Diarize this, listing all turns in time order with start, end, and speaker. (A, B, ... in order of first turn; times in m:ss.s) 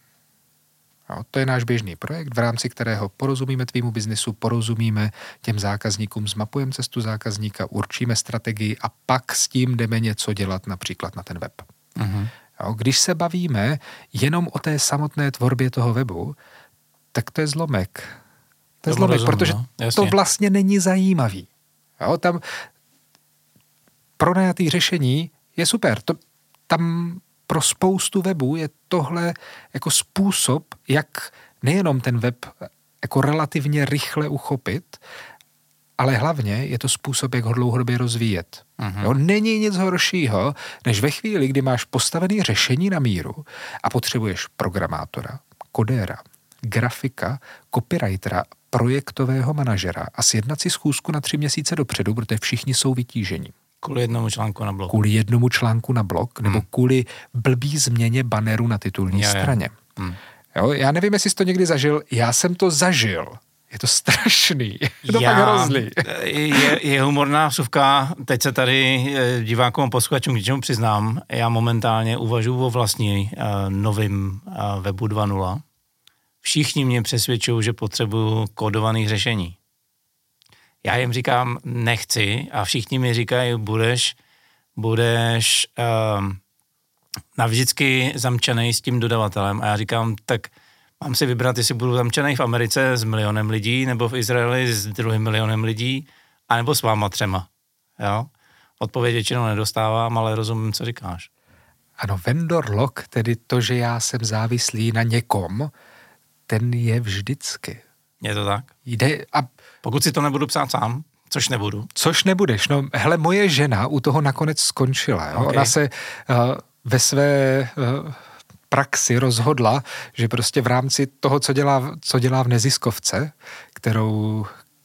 0:01.1-0:11.7 A
0:12.0-0:12.3 B
0:12.6-0:16.4 A
0:17.1-0:18.2 A
0:18.8-0:21.5 A
0:18.9-0:20.2 B
0:22.0-0:22.6 A
0:24.2-0:35.0 A
0:36.0-0:53.5 A
0:38.8-0:39.1 B
0:53.8-0:54.9 B
0:54.9-0:59.8 A
0:59.1-1:00.2 B
1:00.5-1:06.8 A
1:05.0-1:15.6 B
1:16.4-1:19.6 B
1:20.8-1:24.2 B
1:24.8-1:26.4 B
1:27.3-1:37.5 B
1:38.0-1:38.3 B
1:38.8-1:41.3 B
1:42.0-1:45.7 A
1:46.5-1:47.8 A
1:48.2-1:48.7 B
1:48.8-1:49.5 A
1:49.8-1:51.9 B
1:52.0-1:58.2 A
1:55.3-1:55.7 B
1:58.7-2:04.5 A